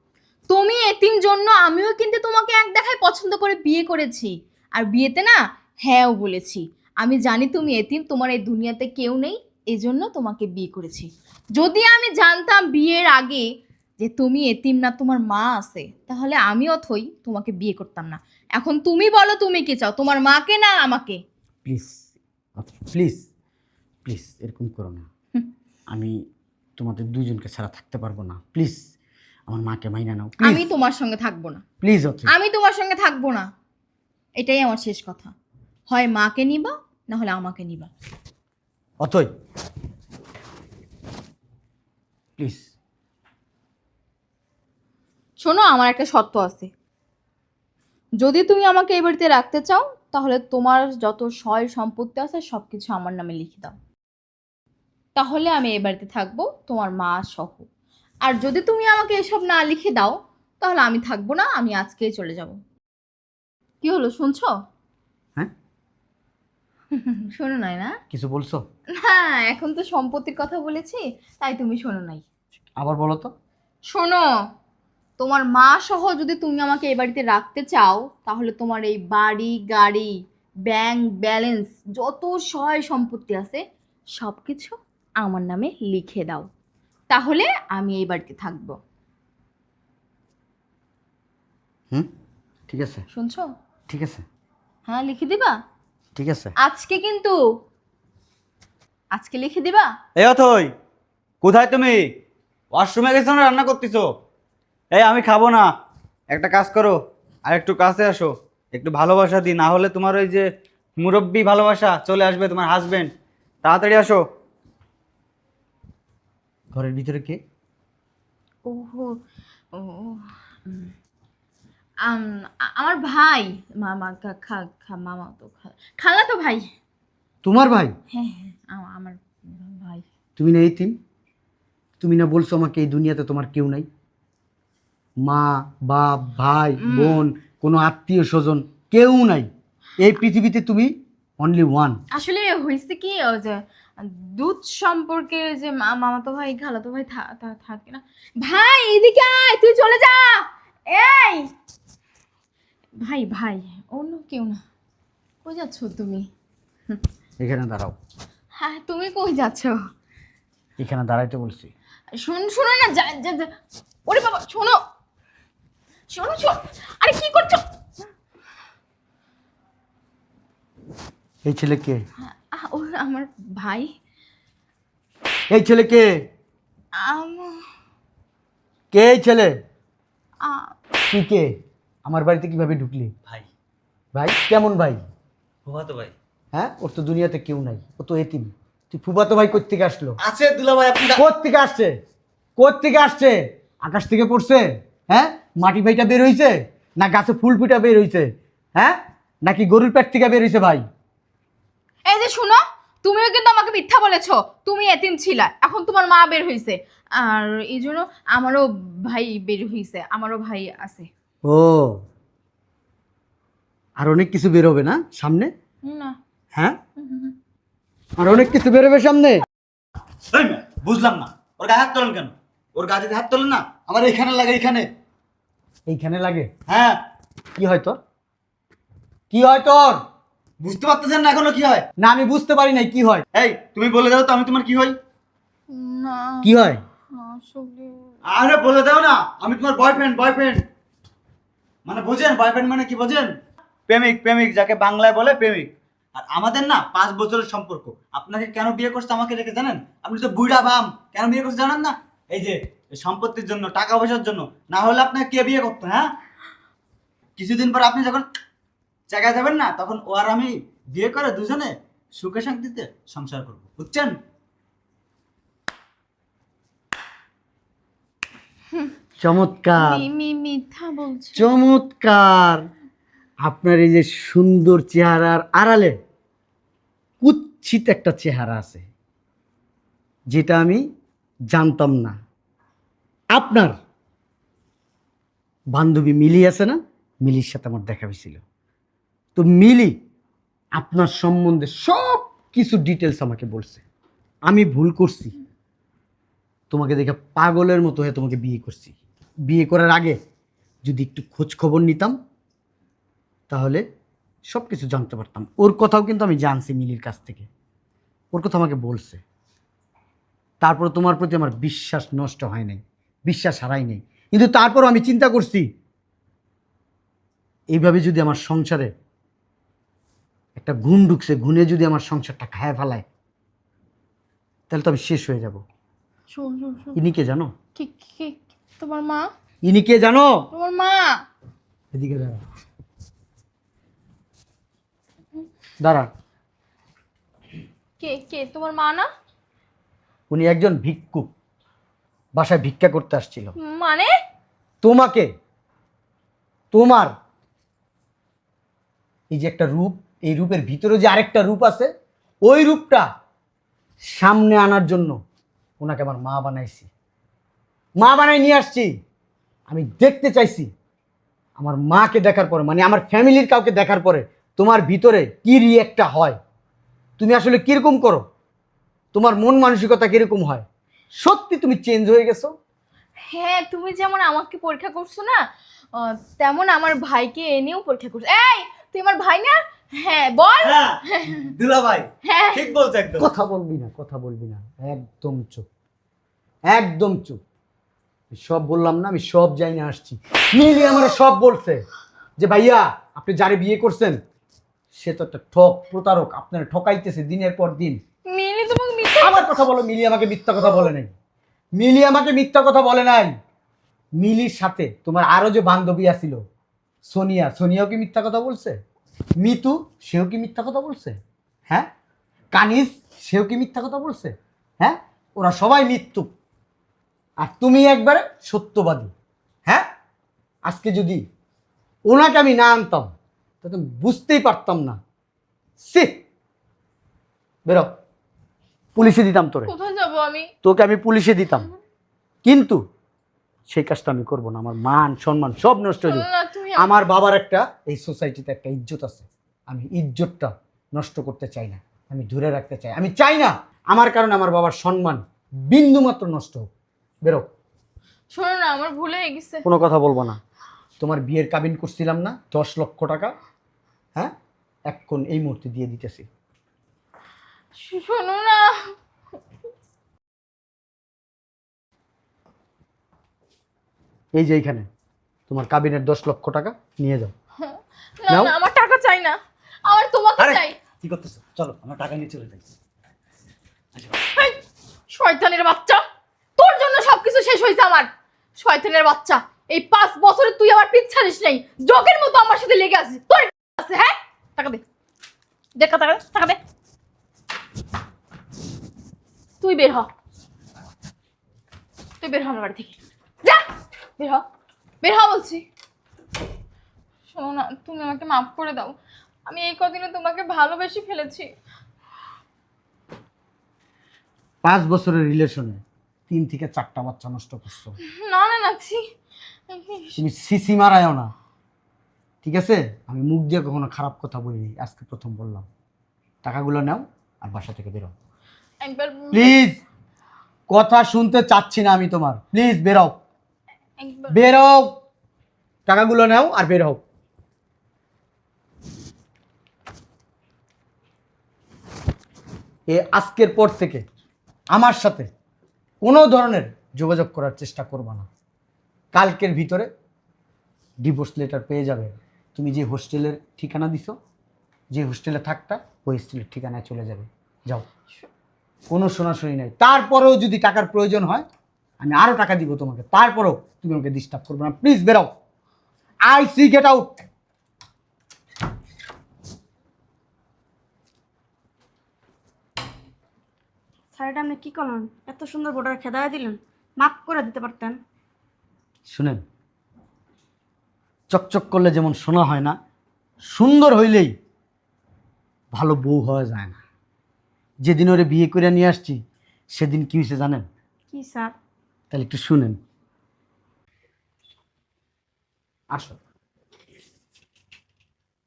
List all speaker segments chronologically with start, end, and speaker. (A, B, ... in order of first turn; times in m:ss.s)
0:00.5-0:13.4 A
0:14.0-0:21.2 A
0:21.6-0:23.2 B
0:24.0-0:25.1 B
0:26.8-0:28.9 B
0:29.5-0:30.6 B
0:30.4-0:31.6 A
0:31.8-0:32.3 B
0:32.3-0:33.5 A
0:34.4-0:35.3 A
0:35.9-0:37.9 A
0:39.0-0:39.3 B
0:42.4-0:42.7 B
0:45.4-0:46.7 A
0:48.2-0:53.8 A
0:55.2-0:57.6 A
0:58.2-1:02.6 A
1:03.8-1:04.5 A
1:06.9-1:07.9 A
1:08.1-1:08.6 B
1:09.0-1:12.2 A
1:12.8-1:13.3 B
1:13.9-1:14.2 A
1:15.2-1:20.1 A
1:20.7-1:23.6 A
1:24.2-1:26.5 A
1:27.1-1:28.8 A
1:32.7-1:33.0 B
1:33.1-1:33.5 A
1:33.9-1:34.2 B
1:34.9-1:35.6 A
1:36.2-1:36.5 B
1:36.6-1:37.4 A
1:39.1-1:39.9 A
1:40.2-1:40.7 C
1:41.4-1:42.0 C
1:42.7-1:44.0 C
1:44.9-1:45.7 C
1:46.3-1:50.5 C
1:51.0-1:53.1 C
1:53.6-1:54.2 C
1:56.7-1:57.4 B
1:58.6-1:59.1 A
1:59.7-2:00.9 A
2:02.0-2:06.7 A
2:07.4-2:07.9 B
2:08.1-2:10.0 A
2:10.4-2:11.0 B
2:12.0-2:13.9 B
2:15.2-2:19.5 B
2:16.8-2:17.2 A
2:20.0-2:22.0 B
2:22.1-2:31.5 A
2:33.0-2:34.6 A
2:35.4-2:36.3 A
2:37.4-2:38.0 B
2:38.6-2:39.8 A
2:40.8-2:41.7 B
2:42.2-2:43.5 A
2:44.1-2:44.8 A
2:46.1-2:47.6 A
2:51.4-2:52.0 B
2:52.2-2:53.9 A
2:55.5-2:56.1 B
2:57.0-2:57.6 A
2:58.9-2:59.5 B
3:00.4-3:00.7 A
3:01.0-3:01.5 B
3:02.0-3:03.1 B
3:04.1-3:05.0 B
3:05.6-3:06.1 C
3:06.5-3:10.2 B
3:10.2-3:11.2 C
3:11.2-3:11.9 B
3:12.6-3:20.8 B
3:22.0-3:31.1 A
3:31.4-3:32.0 B
3:34.0-3:35.5 B
3:35.9-3:36.2 A
3:37.0-3:37.3 A
3:38.2-3:39.4 B
3:40.3-3:44.9 C
3:45.9-3:46.5 B
3:46.7-3:47.0 C
3:47.6-3:48.0 B
3:49.3-3:50.0 B
3:50.6-3:51.9 C
3:52.0-3:53.2 B
3:53.4-3:55.0 C
3:55.7-3:56.6 A
3:56.4-3:56.8 B
3:57.1-3:58.0 A
3:58.3-4:00.6 C
4:01.9-4:03.3 C
4:03.9-4:16.1 C
4:17.4-4:18.2 C
4:19.1-4:24.2 C
4:29.2-4:30.0 B
4:29.8-4:31.5 A
4:31.4-4:32.6 B
4:33.4-4:36.0 B
4:37.2-4:38.8 B
4:40.3-4:40.8 B
4:41.5-4:42.2 B
4:43.4-4:43.7 B
4:45.8-4:48.4 B
4:49.4-4:49.9 B
4:50.8-4:53.8 B
4:54.5-4:55.3 B
4:56.7-4:59.0 B
4:59.5-5:00.2 B
5:00.8-5:02.1 B
5:03.5-5:03.8 B
5:04.5-5:07.5 B
5:08.3-5:09.2 B
5:10.6-5:15.6 B
5:17.7-5:18.9 B
5:20.6-5:23.0 B
5:24.7-5:25.6 B
5:26.3-5:27.0 A
5:27.0-5:27.5 B
5:27.8-5:29.2 A
5:29.6-5:30.4 B
5:30.5-5:31.1 A
5:31.9-5:32.4 B
5:35.8-5:36.1 B
5:38.0-5:39.1 A
5:40.3-5:41.3 B
5:42.4-5:43.5 B
5:43.6-5:44.1 A
5:44.8-5:45.3 B
5:46.7-5:47.1 B
5:49.3-5:51.9 B
5:52.4-5:53.0 B
5:54.1-5:55.2 B
5:55.8-5:56.9 B
5:58.0-5:58.9 B
5:59.7-6:00.7 B
6:01.6-6:06.4 B
6:07.2-6:08.2 B
6:09.1-6:10.6 B
6:11.2-6:12.5 B
6:13.3-6:15.4 A
6:16.0-6:21.5 A
6:20.6-6:23.3 C
6:22.2-6:22.7 A
6:23.2-6:25.6 B
6:26.7-6:27.4 B
6:28.3-6:31.8 B
6:32.4-6:34.2 B
6:34.9-6:38.0 B
6:38.3-6:39.6 A
6:39.2-6:41.1 B
6:41.8-6:43.3 B
6:44.2-6:46.4 B
6:47.1-6:48.8 B
6:49.4-6:51.2 B
6:52.5-6:56.3 B
6:57.4-6:59.1 B
7:00.6-7:01.2 B
7:02.1-7:03.1 B
7:03.6-7:05.0 B
7:05.8-7:06.2 B
7:09.0-7:09.7 B
7:09.6-7:10.5 A
7:10.6-7:11.7 B
7:12.4-7:12.8 B
7:13.7-7:26.6 B
7:16.0-7:16.9 A
7:28.3-7:29.6 A
7:29.6-7:30.4 B
7:31.0-7:33.4 B
7:34.9-7:36.2 B
7:37.8-7:38.9 A
7:44.4-7:44.9 B
7:45.5-7:47.3 B
7:47.6-7:50.8 A
7:48.3-7:48.5 B
7:50.4-7:52.7 C
7:54.0-7:54.2 C
7:54.3-7:54.6 A
7:55.1-7:56.0 A
7:56.6-8:04.8 A
8:05.8-8:06.6 A
8:09.6-8:10.1 A
8:12.2-8:13.7 A
8:14.2-8:14.4 A
8:15.0-8:15.6 A
8:17.3-8:19.0 A
8:19.5-8:21.5 A
8:24.6-8:27.9 B
8:28.2-8:29.0 A
8:29.7-8:30.2 A
8:30.2-8:31.3 B
8:32.4-8:35.6 B
8:36.4-8:38.1 B
8:38.8-8:39.6 A
8:39.3-8:39.8 B
8:40.7-8:43.1 B
8:44.0-8:44.4 A
8:44.3-8:44.9 B
8:45.9-8:47.0 B
8:52.9-8:54.0 B
8:54.7-8:55.3 B
8:56.0-8:58.2 B
8:59.1-8:59.9 B
9:01.0-9:04.1 B
9:04.9-9:07.9 B
9:08.9-9:11.4 B
9:12.0-9:15.3 B
9:16.3-9:17.2 B
9:24.1-9:28.0 D
9:29.1-9:29.4 B
9:31.3-9:32.8 B
9:33.5-9:34.3 B
9:35.7-9:36.8 B
9:37.8-9:39.2 B
9:39.7-9:40.6 B
9:41.1-9:41.5 D
9:42.1-9:42.8 B